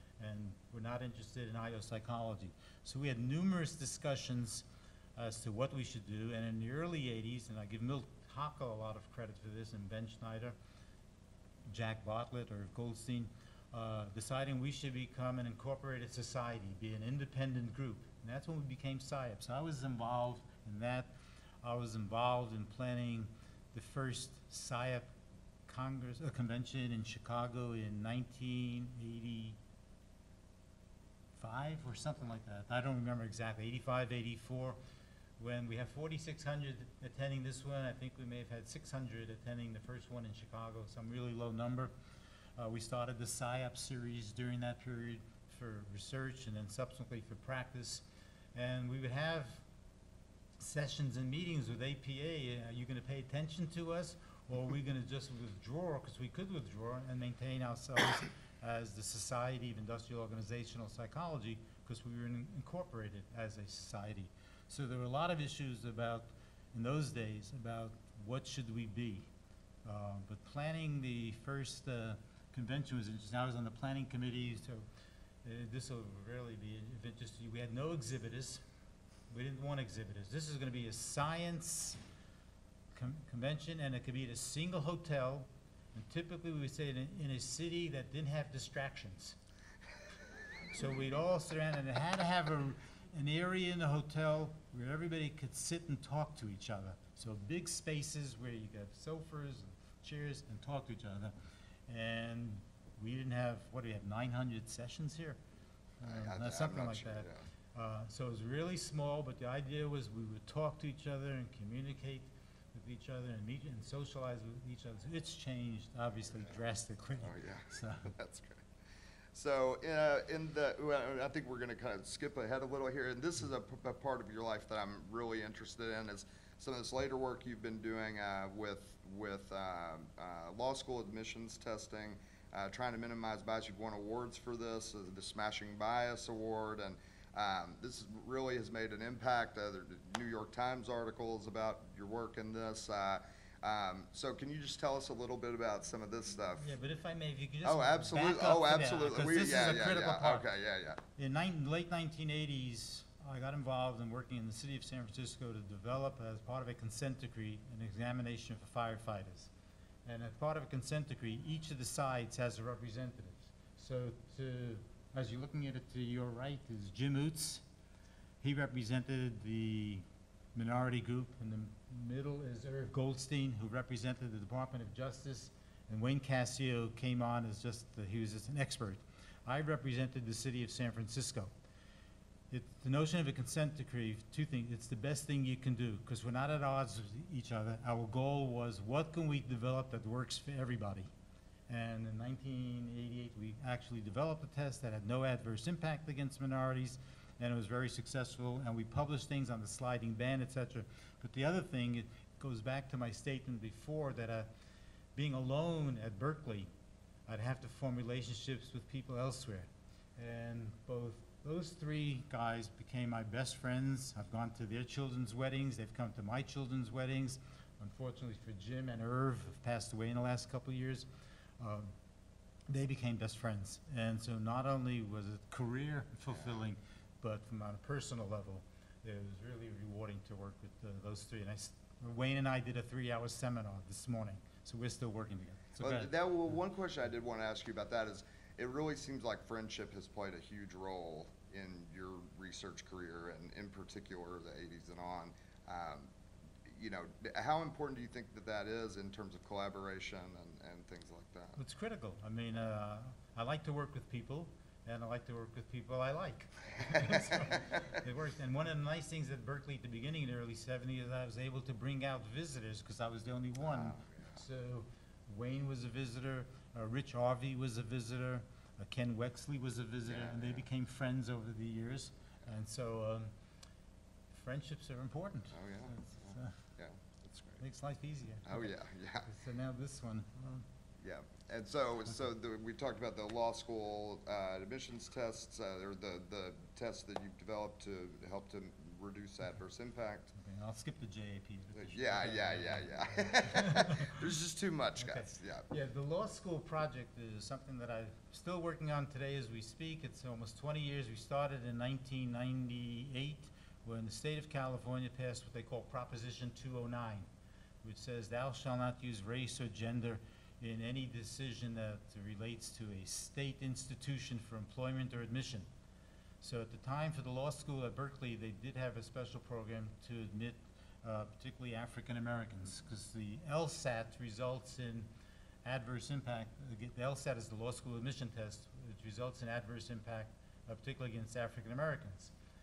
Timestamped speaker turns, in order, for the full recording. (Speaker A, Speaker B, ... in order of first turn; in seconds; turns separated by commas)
Speaker A: 0.2-10.6, Speaker A: 11.7-25.1, Speaker A: 25.6-29.6, Speaker A: 31.3-34.8, Speaker A: 35.4-41.9, Speaker A: 42.5-49.6, Speaker A: 50.6-69.3, Speaker A: 69.8-74.9, Speaker A: 75.4-78.6, Speaker A: 79.3-82.0, Speaker A: 82.9-89.4, Speaker A: 90.6-101.3, Speaker A: 101.9-105.4, Speaker A: 106.0-118.1, Speaker B: 106.0-107.4, Speaker B: 117.2-118.7, Speaker B: 119.3-146.7, Speaker A: 146.6-150.4, Speaker B: 147.6-151.0, Speaker A: 151.1-159.5, Speaker A: 160.1-167.6, Speaker A: 168.4-181.5, Speaker A: 182.5-191.1, Speaker A: 191.7-204.5, Speaker A: 205.1-206.7, Speaker A: 207.3-221.1, Speaker A: 221.6-221.9, Speaker A: 222.7-236.1, Speaker B: 235.8-246.1, Speaker B: 246.6-251.6, Speaker A: 251.6-273.3, Speaker B: 263.7-264.4, Speaker B: 270.1-270.6, Speaker A: 274.3-276.6, Speaker B: 275.5-277.6, Speaker A: 277.6-278.7, Speaker B: 278.4-279.3, Speaker A: 279.3-280.7, Speaker B: 281.0-290.3, Speaker A: 290.3-294.2, Speaker B: 291.7-295.6, Speaker A: 295.0-307.3, Speaker A: 307.8-315.7, Speaker A: 316.4-325.1, Speaker A: 325.6-332.3